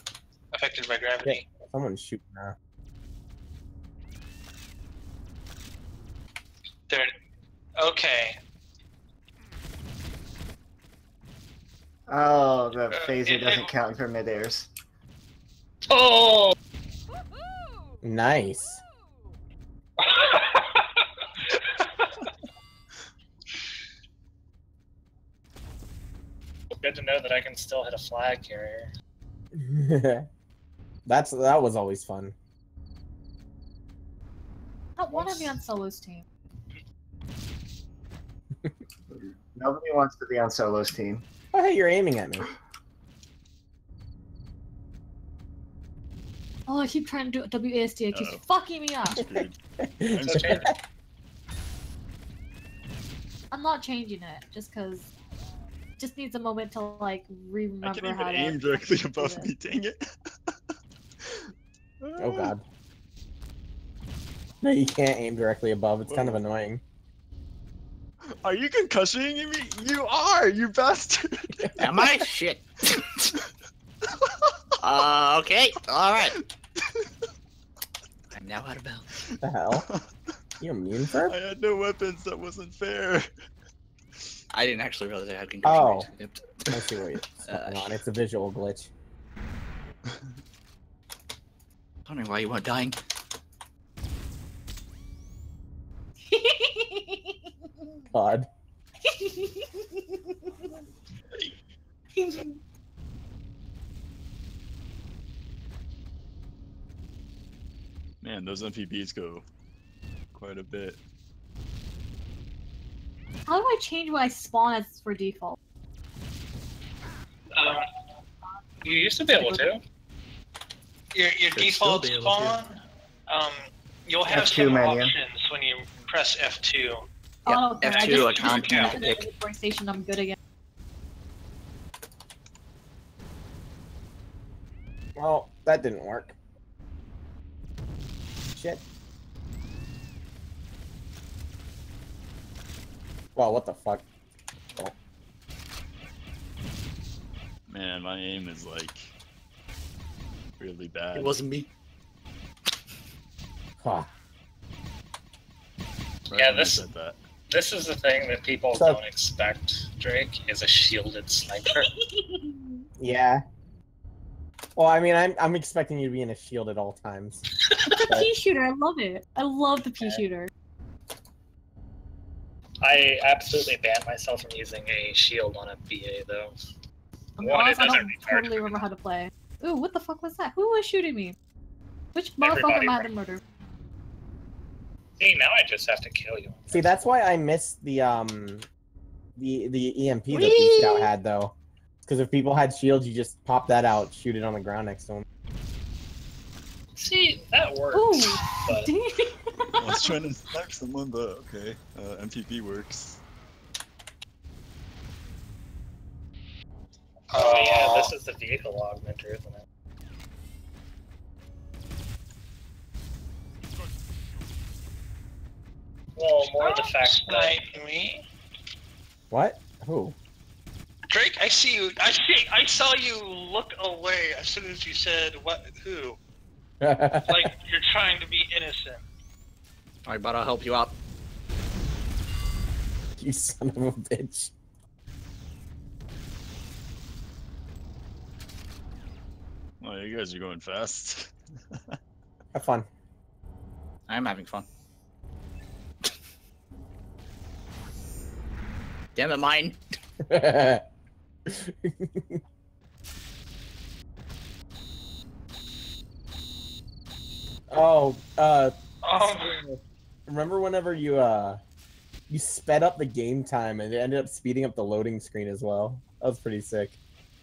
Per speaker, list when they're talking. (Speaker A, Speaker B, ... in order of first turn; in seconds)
Speaker A: 0.5-1.4, 7.8-8.4, 12.9-13.8, 20.0-22.1, 117.6-117.8, 121.1-122.8, 123.3-127.0, 127.9-129.0, 207.3-208.1, 216.4-218.2, 221.1-226.2, 227.3-229.0, 259.0-259.6
Speaker B: 1.2-2.5, 18.0-18.8, 29.6-30.3, 31.1-32.3, 41.5-42.5, 49.2-50.8, 62.2-62.6, 64.6-66.8, 79.4-79.8, 80.6-81.3, 85.6-86.1, 86.7-88.9, 98.1-98.5, 135.2-136.4, 138.5-138.8, 143.4-144.1, 153.8-154.1, 158.7-159.0, 163.0-163.4, 164.8-167.4, 186.7-188.7, 189.4-191.5, 192.1-195.2, 219.3-220.2, 226.8-227.5, 233.2-234.5, 242.5-242.9, 250.3-250.8, 251.5-252.4, 257.7-261.6, 262.3-267.0
Speaker C: 12.1-14.7, 39.1-41.2, 124.3-125.2
Speaker D: 15.9-16.6, 26.7-28.9, 35.1-35.5, 50.2-50.7, 118.8-119.8, 156.3-156.9, 157.5-161.9, 170.0-170.2, 172.8-176.6, 177.4-178.8, 182.4-183.1, 185.2-186.9, 196.9-198.9, 207.3-209.6, 216.2-217.6
Speaker E: 35.0-36.2, 46.7-49.2, 53.5-55.1, 56.0-59.5, 96.3-97.4, 99.1-100.5, 102.2-102.5, 113.5-115.6, 127.5-130.4, 161.7-162.8, 167.9-170.5, 177.4-181.4, 182.2-183.4, 197.9-200.1
Speaker F: 48.1-48.5, 49.1-49.6, 50.1-50.7, 57.8-60.6, 61.2-61.5, 62.0-62.5, 66.1-66.4, 68.3-71.9, 76.2-77.0, 81.2-83.3, 108.2-109.4, 110.3-111.0, 147.7-149.1, 150.6-151.4, 156.3-157.2, 199.8-203.2, 239.8-242.0
Speaker G: 71.8-73.3, 74.8-76.4, 78.3-79.1, 84.5-86.8, 87.5-88.0, 92.1-93.0, 121.7-122.5, 127.5-129.3, 151.2-151.7, 190.4-190.8, 230.1-231.0, 244.1-244.7, 249.2-249.8